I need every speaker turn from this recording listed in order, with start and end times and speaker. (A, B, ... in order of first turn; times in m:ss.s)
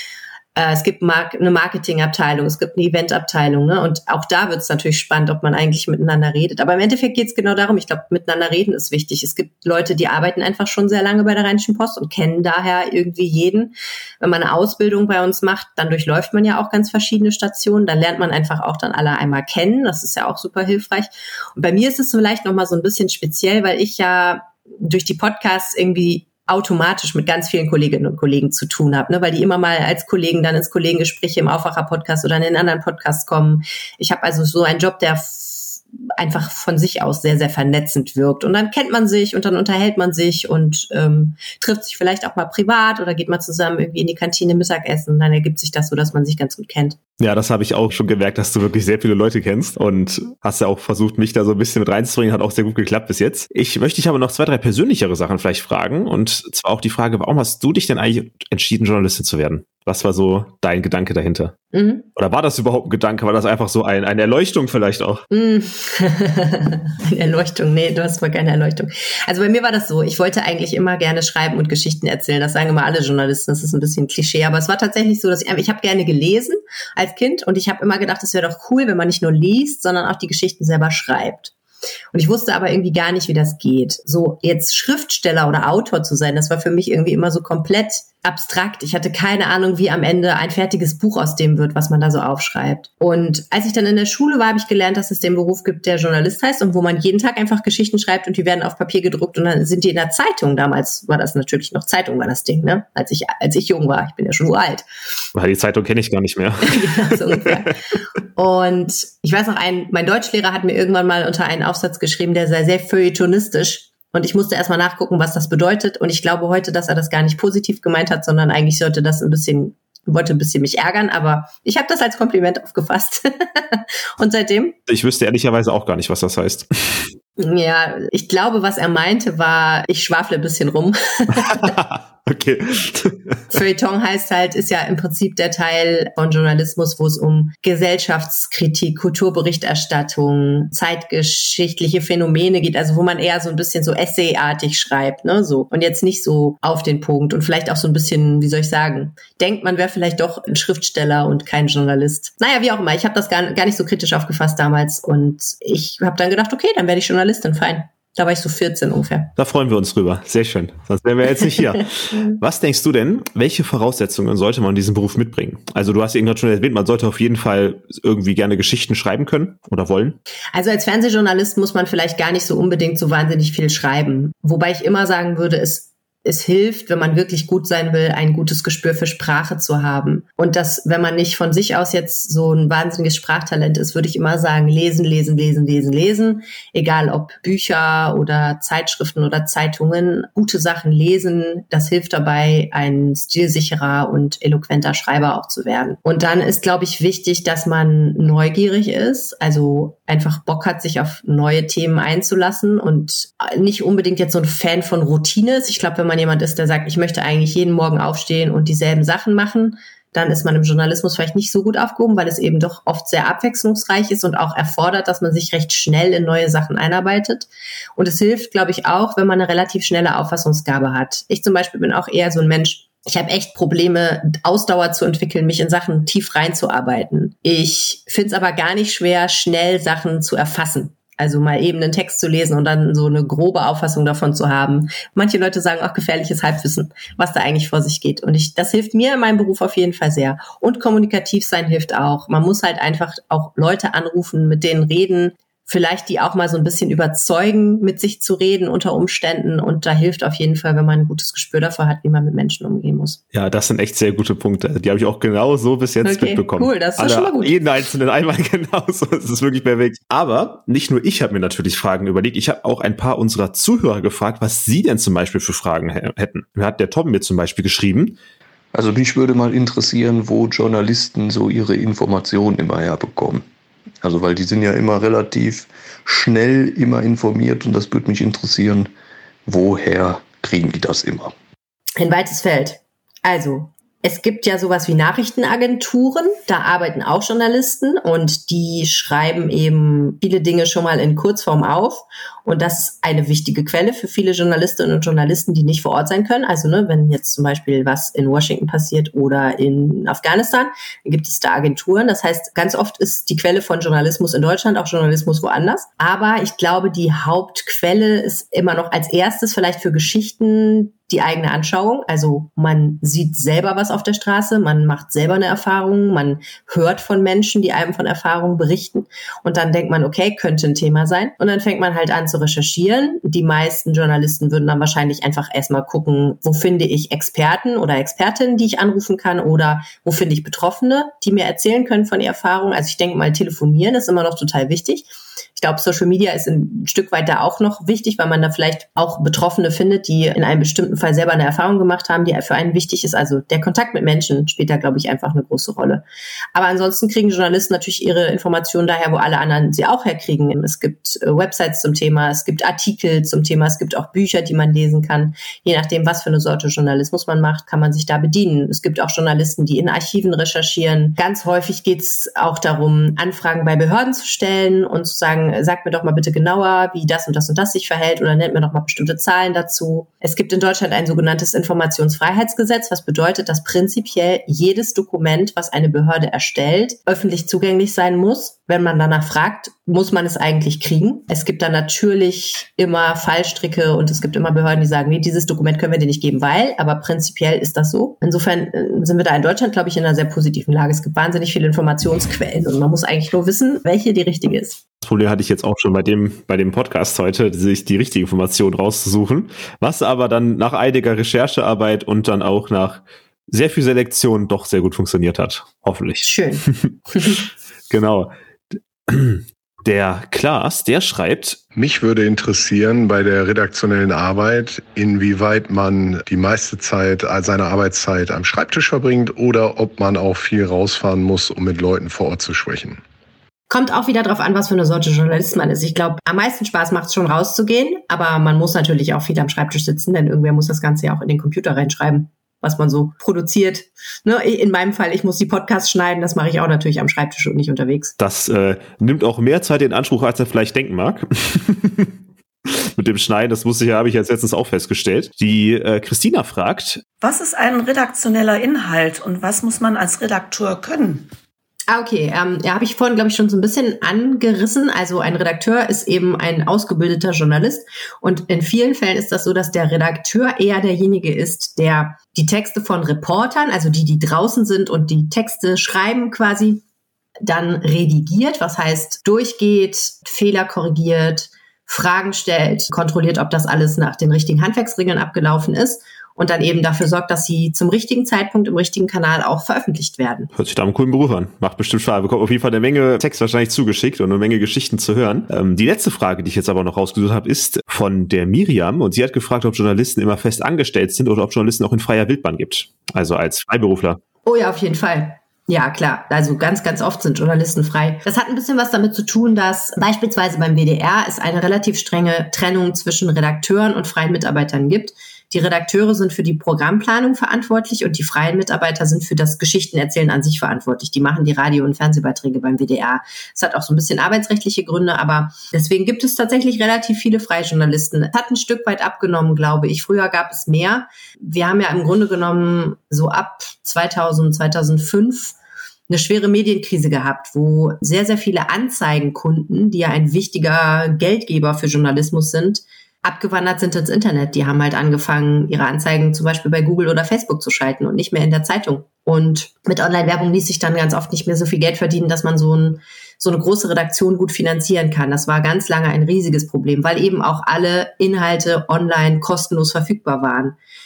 0:00.6-0:47.0 A
0:47.2-1:01.5 B
1:01.7-1:02.1 A
1:02.2-1:05.2 B
1:05.3-1:21.5 A
1:22.1-1:44.8 A
1:45.4-1:47.7 B
1:46.6-1:47.8 A
1:48.4-2:04.8 A
2:04.9-2:07.1 B
2:07.4-2:11.8 A
2:11.4-2:13.4 B
2:13.5-2:39.3 A
2:39.4-2:50.2 B
2:50.5-4:13.2 A
4:13.3-4:28.2 B
4:16.0-4:17.6 A
4:28.7-4:33.5 C
4:34.0-4:38.9 C
4:39.5-4:41.3 C
4:42.0-5:46.0 A
5:46.6-6:34.8 A
6:35.0-6:47.0 B
6:46.2-6:47.4 A
6:47.9-6:48.3 B
6:49.1-6:51.6 B
6:51.8-7:03.0 D
7:03.7-7:18.1 A
7:18.2-7:27.0 B
7:27.2-7:31.3 E
7:31.9-7:46.8 A
7:47.4-8:00.5 A
8:00.5-8:14.2 B
8:14.5-8:45.6 A
8:46.1-9:10.8 A